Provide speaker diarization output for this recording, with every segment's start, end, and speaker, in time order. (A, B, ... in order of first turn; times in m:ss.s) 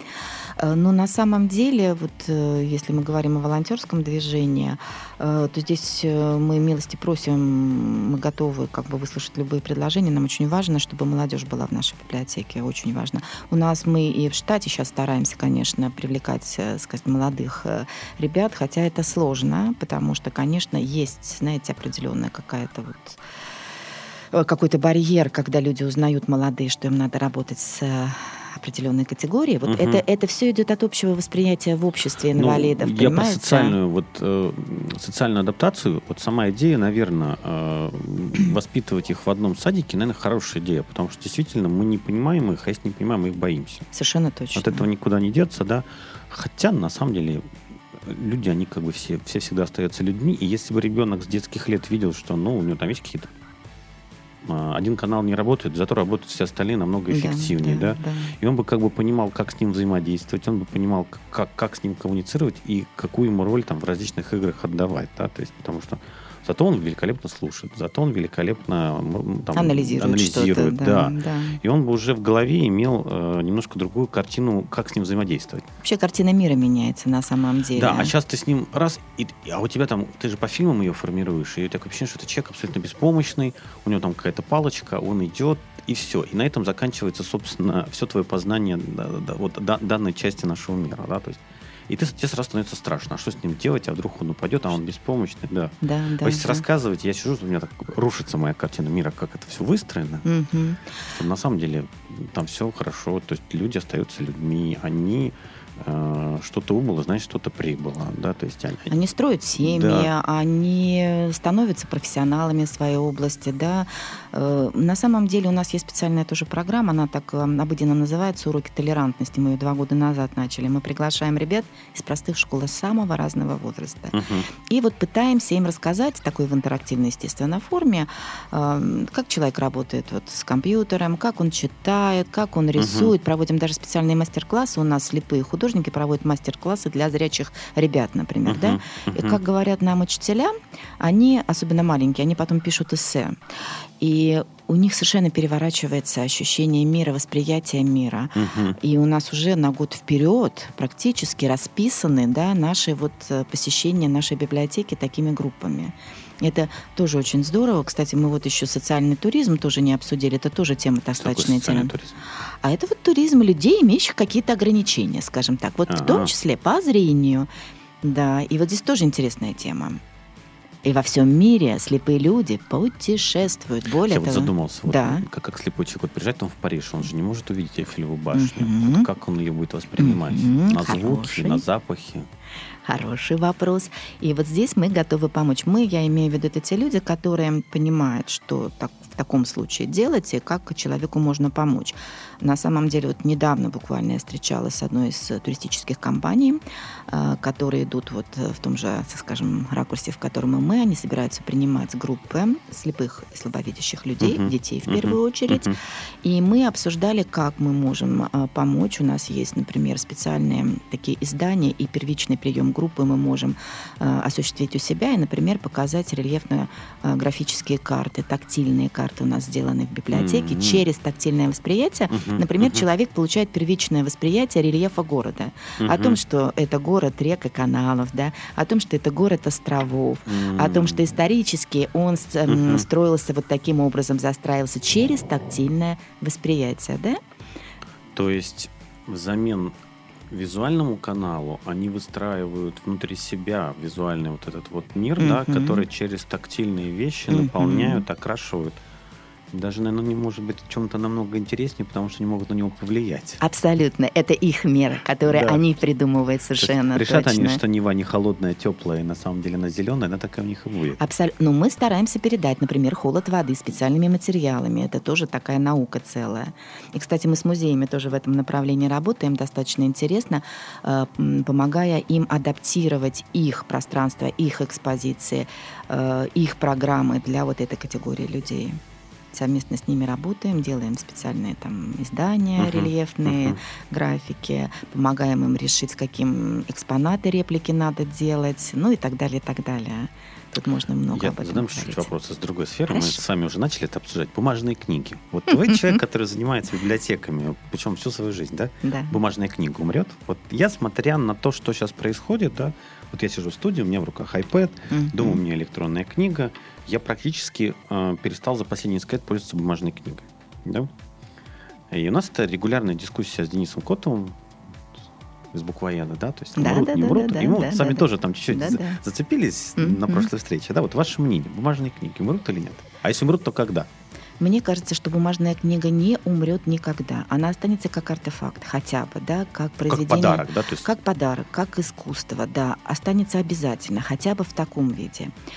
0:00.6-0:23.2 A
0:24.3-0:33.8 A
0:29.7-0:30.0 B
0:32.3-0:43.9 B
0:43.9-0:44.8 A
0:44.5-0:53.3 B
0:54.4-1:15.7 B
0:57.1-0:58.3 A
1:09.6-1:11.6 A
1:15.8-1:18.1 A
1:17.7-1:40.3 B
1:35.8-1:36.6 A
1:40.2-1:40.9 A
1:41.0-1:49.0 B
1:48.9-2:04.2 A
1:49.6-1:50.1 B
2:04.1-2:04.5 B
2:04.7-2:23.4 A
2:12.8-2:13.1 B
2:18.5-2:19.4 B
2:24.0-2:41.9 A
2:28.4-2:28.8 B
2:41.2-2:42.2 B
2:42.6-2:47.5 A
2:45.9-2:46.3 B
2:48.0-2:50.0 A
2:50.8-2:55.2 A
2:54.1-3:02.3 B
2:58.3-2:59.1 A
3:00.0-3:01.6 A
3:02.9-3:57.2 A
3:24.2-3:25.8 B
3:40.1-3:40.8 B
3:42.1-3:42.8 B
3:45.8-3:46.2 B
3:50.3-3:51.0 B
3:52.5-3:52.9 B
3:58.1-3:59.8 B
4:00.3-4:08.8 B
4:05.2-4:05.8 A
4:07.3-4:08.0 A
4:09.5-4:13.4 B
4:13.4-4:17.6 A
4:15.3-4:15.6 B
4:16.6-4:21.0 B
4:21.0-4:38.8 A
4:39.3-4:52.1 A
4:42.6-4:43.6 B
4:51.1-5:10.9 B
4:52.9-4:53.2 A
4:58.8-4:59.2 A
5:04.9-5:05.4 A
5:11.9-5:14.4 B
5:15.5-5:23.9 B
5:16.6-5:19.0 A
5:19.8-5:20.3 A
5:24.4-5:35.3 A
5:29.8-5:30.9 B